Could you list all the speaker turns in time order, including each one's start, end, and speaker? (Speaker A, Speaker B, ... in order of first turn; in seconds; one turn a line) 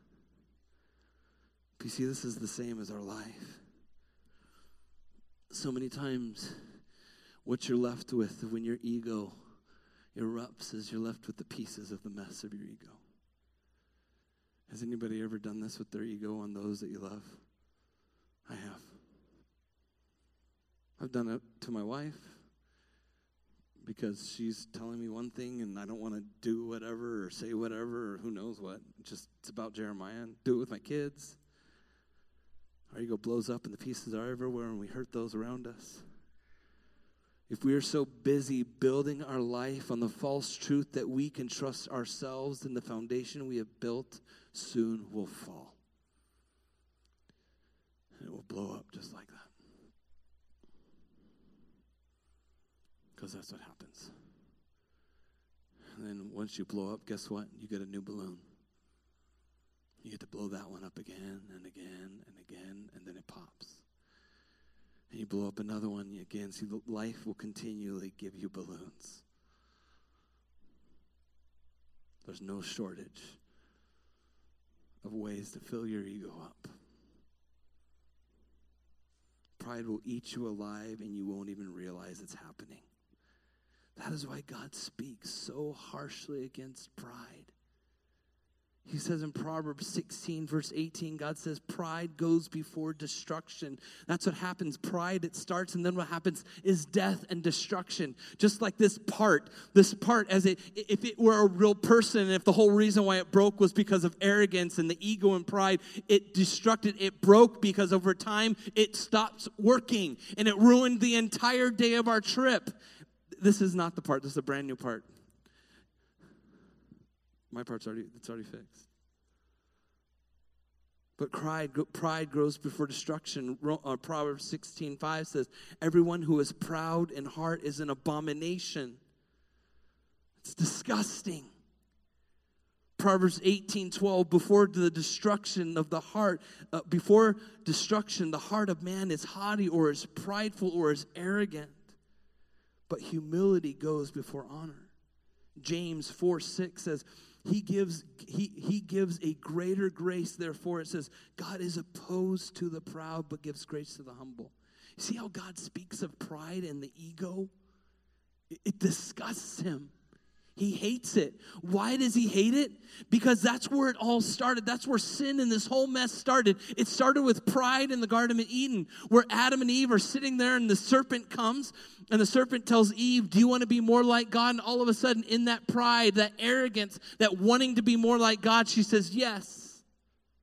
Speaker A: 1.8-3.6
Speaker A: 5.5-6.6
Speaker A: 7.4-9.4
Speaker A: 10.1-13.0
Speaker A: 14.7-17.4
Speaker A: 18.5-18.9
Speaker A: 21.0-22.4
Speaker A: 23.8-31.4
Speaker A: 32.9-36.0
Speaker A: 37.5-45.8
Speaker A: 48.2-49.5
Speaker A: 53.2-54.1
Speaker A: 56.0-58.4
Speaker A: 60.0-63.8
Speaker A: 65.1-69.2
Speaker A: 72.2-73.4
Speaker A: 75.0-76.7
Speaker A: 79.6-82.8
Speaker A: 84.0-87.5
Speaker A: 88.9-112.7
Speaker A: 113.4-115.1
Speaker A: 117.5-118.8
Speaker A: 121.2-129.0
Speaker A: 130.4-131.5
Speaker A: 133.0-141.9
Speaker A: 142.9-144.9
Speaker A: 145.6-157.5
Speaker A: 158.5-159.9
Speaker A: 160.6-179.8